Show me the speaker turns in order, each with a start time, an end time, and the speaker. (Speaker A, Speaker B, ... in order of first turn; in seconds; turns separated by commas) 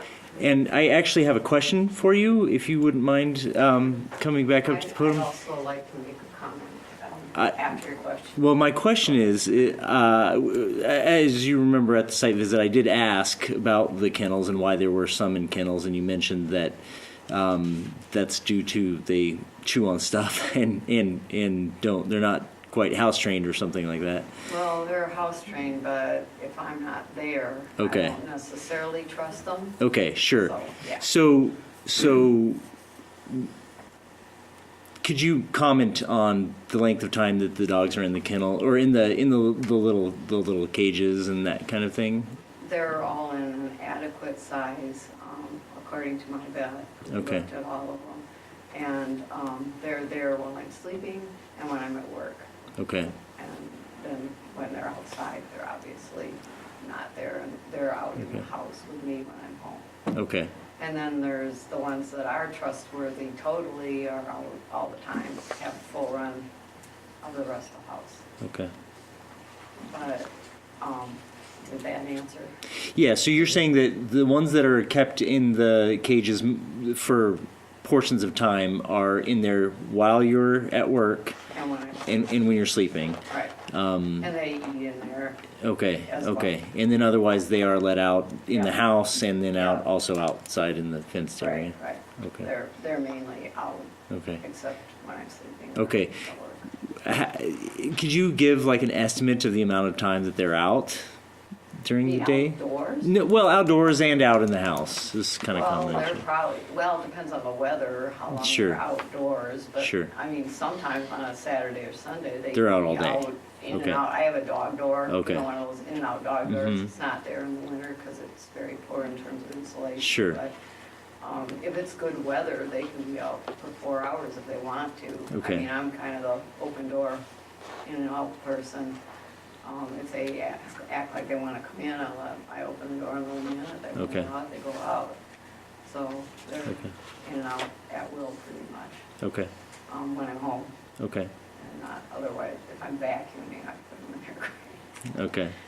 Speaker A: 0.3-5.3, Speaker B: 4.6-8.6, Speaker A: 8.3-24.3, Speaker B: 24.4-31.1, Speaker A: 27.8-28.2, Speaker A: 29.8-32.6, Speaker A: 35.0-42.3, Speaker B: 42.6-52.5, Speaker A: 47.1-47.5, Speaker A: 52.8-53.1, Speaker B: 53.2-59.9, Speaker A: 60.1-60.5, Speaker B: 60.8-66.5, Speaker B: 67.2-68.2, Speaker A: 68.4-68.7, Speaker B: 69.9-72.5, Speaker A: 72.9-81.3, Speaker B: 81.5-82.3, Speaker A: 82.0-84.3, Speaker B: 83.3-83.5, Speaker B: 84.2-86.6, Speaker A: 85.6-92.5, Speaker B: 88.5-88.8, Speaker B: 89.5-89.8, Speaker B: 91.4-96.7, Speaker A: 94.1-94.4, Speaker A: 95.7-96.2, Speaker A: 96.9-101.0, Speaker A: 101.8-106.2, Speaker B: 102.0-103.1, Speaker B: 105.5-120.5, Speaker A: 108.3-108.8, Speaker A: 109.8-110.1, Speaker A: 112.5-114.0, Speaker A: 115.1-115.5, Speaker A: 116.5-116.9, Speaker A: 120.0-120.4, Speaker B: 121.2-127.2, Speaker A: 125.3-125.7, Speaker B: 127.8-129.0, Speaker B: 129.6-135.2, Speaker A: 133.9-134.3, Speaker B: 135.8-139.0, Speaker A: 139.2-139.5, Speaker B: 139.9-140.7, Speaker A: 141.0-141.3, Speaker B: 141.6-144.8, Speaker A: 145.1-145.5